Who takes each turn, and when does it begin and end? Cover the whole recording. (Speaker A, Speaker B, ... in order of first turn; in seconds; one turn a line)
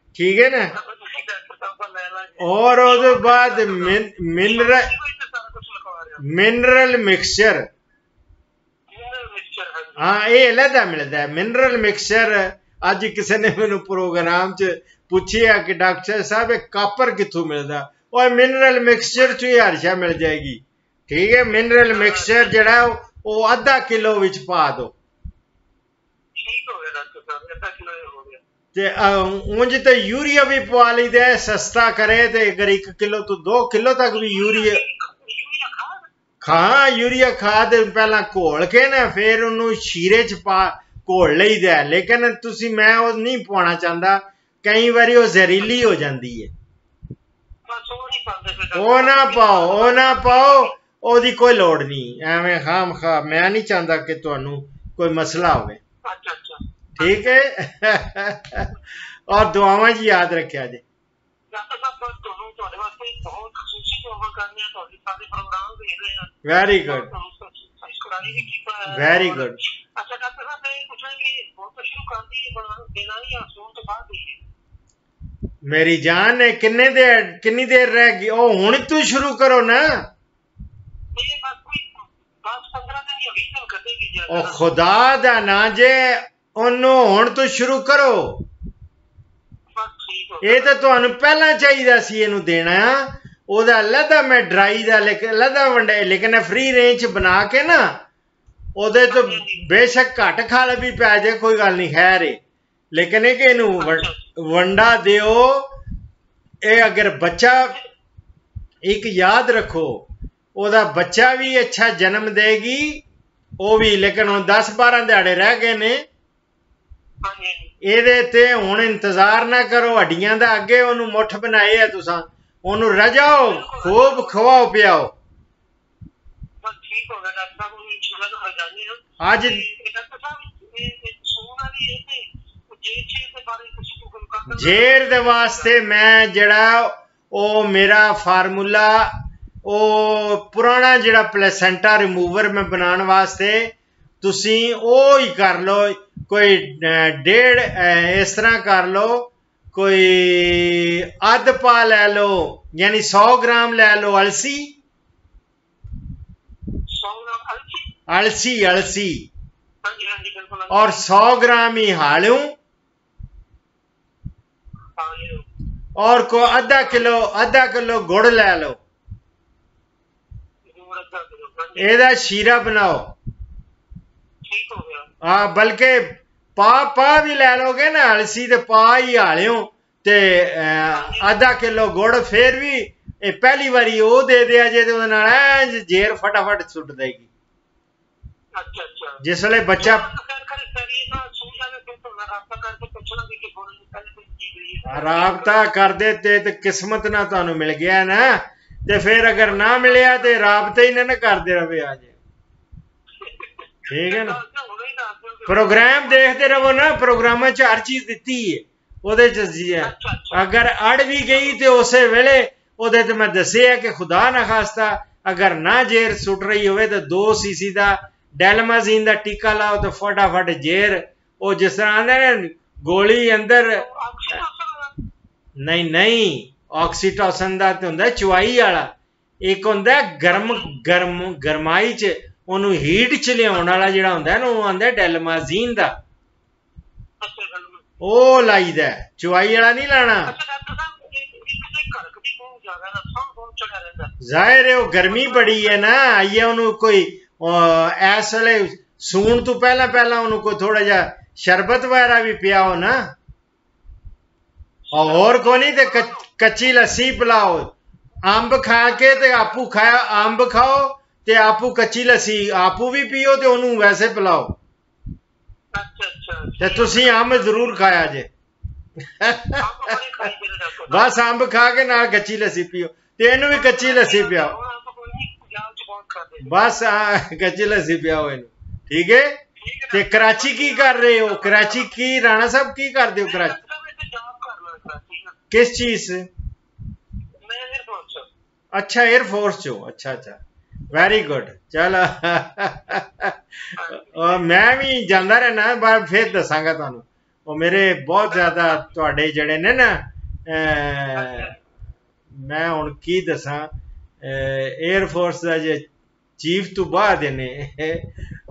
Speaker A: 0.1-0.7
Speaker B: 0.7-6.2
Speaker A: 2.4-4.9
Speaker A: 6.2-7.6
Speaker B: 8.9-10.1
Speaker A: 10.0-24.9
Speaker B: 19.1-19.4
Speaker B: 21.8-22.7
Speaker B: 26.4-28.4
Speaker A: 28.8-34.8
Speaker B: 34.1-36.1
Speaker A: 36.4-46.5
Speaker B: 47.7-50.7
Speaker A: 48.8-55.8
Speaker B: 56.1-57.4
Speaker A: 57.0-58.7
Speaker A: 59.3-60.8
Speaker B: 61.5-74.4
Speaker A: 66.5-67.1
Speaker A: 68.3-69.6
Speaker A: 75.7-79.9
Speaker B: 81.2-84.7
Speaker A: 84.3-88.4
Speaker B: 89.8-90.8
Speaker A: 90.4-97.9
Speaker A: 98.8-102.4
Speaker B: 99.1-99.7
Speaker A: 102.9-105.7
Speaker B: 103.8-104.2
Speaker A: 106.7-107.8
Speaker A: 108.8-110.0
Speaker A: 110.6-113.0
Speaker A: 113.6-116.0
Speaker B: 117.2-117.7
Speaker A: 117.8-125.1
Speaker B: 123.4-124.4
Speaker B: 126.6-135.8
Speaker A: 129.2-129.6
Speaker A: 134.5-139.1
Speaker A: 139.7-154.7
Speaker B: 156.9-157.9
Speaker A: 158.1-159.2
Speaker B: 159.8-161.0
Speaker A: 160.7-162.5
Speaker B: 165.0-165.4
Speaker A: 166.0-168.8
Speaker B: 166.4-167.1
Speaker B: 170.7-172.0
Speaker A: 171.8-173.1
Speaker B: 174.4-175.1
Speaker A: 175.2-176.0
Speaker A: 176.6-187.3
Speaker B: 180.9-181.3
Speaker B: 188.6-189.2
Speaker A: 189.2-190.1
Speaker B: 189.8-195.7
Speaker A: 194.9-202.2
Speaker B: 199.2-200.4
Speaker B: 203.2-206.9
Speaker A: 203.9-204.4
Speaker A: 205.5-223.8
Speaker B: 209.8-210.5
Speaker B: 211.2-211.6
Speaker B: 223.8-225.0
Speaker A: 225.6-228.9
Speaker A: 229.4-235.9
Speaker B: 230.3-230.8
Speaker B: 237.2-237.9
Speaker A: 238.0-240.3
Speaker B: 240.2-244.1
Speaker A: 244.2-253.0
Speaker B: 245.0-246.0
Speaker B: 254.9-256.3
Speaker A: 254.9-257.7
Speaker A: 258.2-264.6
Speaker B: 258.9-259.6
Speaker B: 265.8-267.8
Speaker A: 266.6-268.3
Speaker A: 269.2-269.6
Speaker B: 269.6-271.1
Speaker A: 270.9-274.5
Speaker B: 273.5-276.5
Speaker A: 276.4-279.4
Speaker B: 279.6-281.9
Speaker A: 279.9-283.6
Speaker B: 283.2-285.4
Speaker A: 285.5-286.3
Speaker B: 287.4-288.3
Speaker A: 288.7-290.4
Speaker A: 290.9-293.3
Speaker B: 293.8-294.4
Speaker A: 294.1-301.5
Speaker B: 298.3-298.9
Speaker B: 301.1-301.6
Speaker A: 302.3-303.7
Speaker A: 304.2-305.9
Speaker A: 306.4-308.1